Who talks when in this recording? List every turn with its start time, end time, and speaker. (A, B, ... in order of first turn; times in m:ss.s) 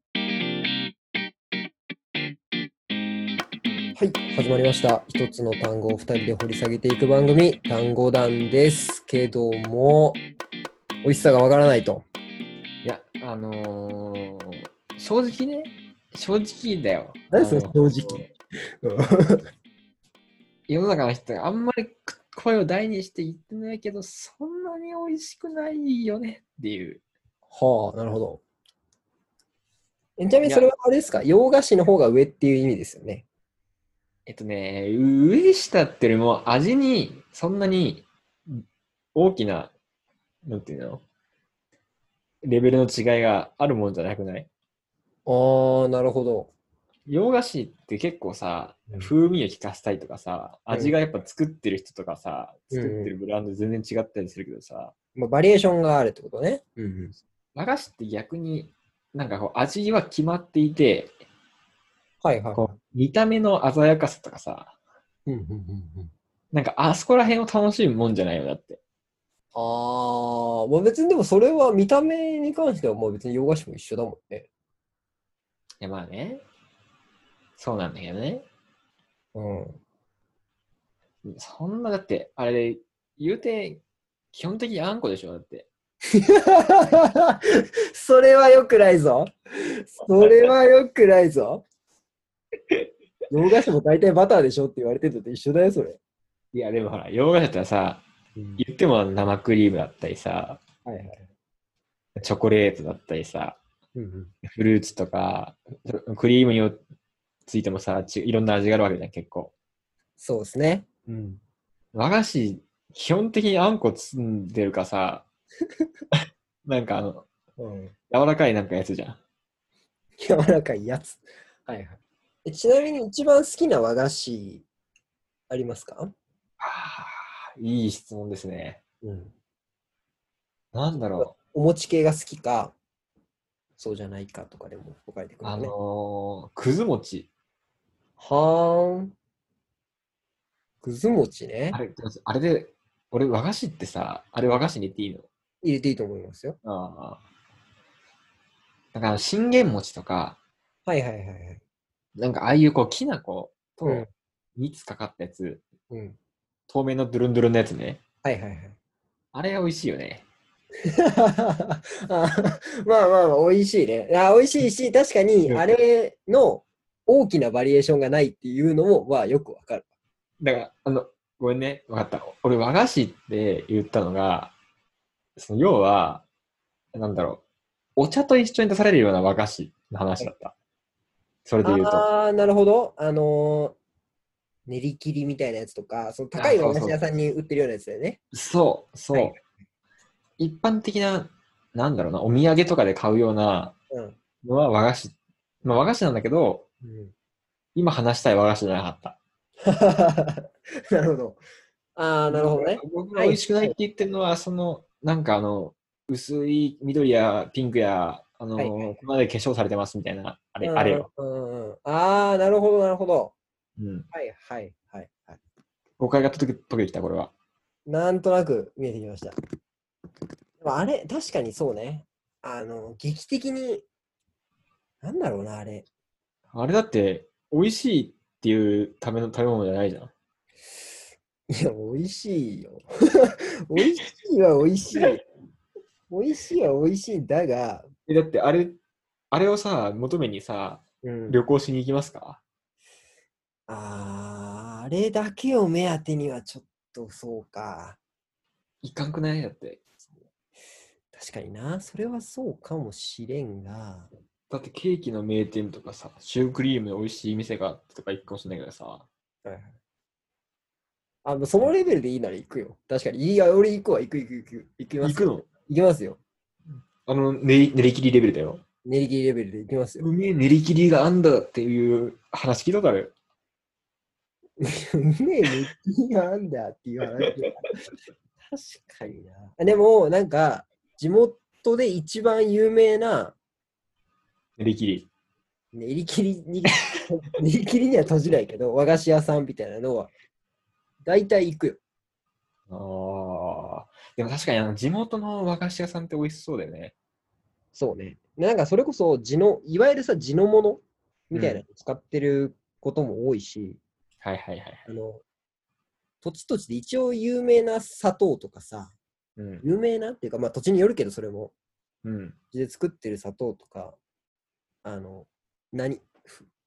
0:04.0-0:10.2 A
0:11.0-0:12.0 A
0:12.8-0:18.3 B
0:17.3-0:18.3 A
0:18.8-0:19.4 A
0:20.7-0:27.0 B
0:27.5-0:28.4 A
0:30.2-0:33.2 A
0:30.4-0:30.7 B
0:34.2-0:38.6 B
0:39.1-0:39.7 B
0:40.4-0:41.0 B
0:42.4-0:44.5 B
0:45.2-0:46.5 A
0:47.1-0:54.9 B
0:50.7-0:51.0 A
0:52.7-0:53.1 A
0:55.2-0:57.2 A
0:57.6-1:01.1 B
1:02.2-1:02.7 A
1:02.5-1:04.7 B
1:05.3-1:06.1 A
1:06.5-1:08.8 B
1:09.5-1:14.5 A
1:15.8-1:16.4 B
1:17.6-1:18.4 B
1:19.3-1:19.8 A
1:21.2-1:23.8 B
1:24.3-1:25.7 B
1:26.1-1:31.6 A
1:33.3-1:36.0 A
1:36.5-1:38.0 B
1:38.4-1:38.6 A
1:38.6-1:40.6 B
1:40.8-1:41.3 A
1:42.2-1:43.6 B
1:43.9-1:44.3 A
1:44.5-1:46.8 B
1:47.4-1:49.5 B
1:50.2-1:51.4 A
1:51.9-1:55.3 B
1:56.6-1:57.3 B
1:57.6-1:57.9 A
1:58.1-1:59.2 B
2:00.2-2:04.6 A
2:05.5-2:06.1 A
2:06.6-2:08.8 B
2:09.0-2:09.3 A
2:10.7-2:11.3 B
2:11.2-2:12.7 A
2:13.8-2:15.7 A
2:15.4-2:17.3 B
2:18.2-2:19.1 A
2:20.8-2:21.8 A
2:21.7-2:25.3 B
2:25.6-2:26.6 A
2:26.6-2:27.2 B
2:28.9-2:30.4 B
2:30.9-2:31.6 A
2:32.2-2:35.6 B
2:35.9-2:36.2 A
2:36.7-2:38.0 B
2:38.2-2:38.7 A
2:39.3-2:40.2 B
2:41.0-2:49.8 A
2:50.4-2:54.5 B
2:55.4-2:56.2 B
2:56.9-2:57.4 B
2:58.0-3:00.5 B
3:01.4-3:02.0 B
3:01.6-3:03.8 A
3:04.7-3:08.2 A
3:06.3-3:07.0 B
3:08.3-3:09.4 B
3:09.1-3:09.5 A
3:10.4-3:13.8 B
3:13.9-3:14.2 A
3:14.4-3:16.6 B
3:16.8-3:17.1 A
3:17.7-3:19.2 B
3:19.6-3:21.4 A
3:22.0-3:23.7 A
3:22.3-3:31.1 B
3:28.6-3:28.9 A
3:30.6-3:33.3 A
3:33.8-3:34.1 B
3:34.1-3:35.4 A
3:36.0-3:37.3 B
3:37.8-3:39.4 A
3:40.6-3:43.8 A
3:45.0-3:45.8 A
3:46.5-3:50.1 B
3:51.5-3:55.2 A
3:56.1-3:57.9 A
3:58.1-3:58.8 B
3:59.3-4:02.4 B
4:01.0-4:01.4 A
4:03.7-4:08.0 A
4:08.8-4:09.8 B
4:11.1-4:14.1 A
4:14.5-4:19.0 B
4:19.4-4:19.7 A
4:21.2-4:26.2 A
4:25.0-4:25.5 B
4:27.0-4:28.6 B
4:28.8-4:30.1 A
4:30.0-4:33.1 B
4:34.6-4:37.6 A
4:38.5-4:43.3 A
4:44.6-4:45.1 B
4:45.7-4:50.1 A
4:51.0-4:51.8 A
4:52.7-4:56.9 B
4:57.7-5:03.8 A
5:01.3-5:01.6 B
5:04.2-5:04.8 B
5:04.8-5:05.2 A
5:06.2-5:08.9 A
5:09.4-5:09.6 B
5:09.6-5:11.5 A
5:12.0-5:12.4 B
5:12.5-5:14.0 A
5:14.8-5:16.4 A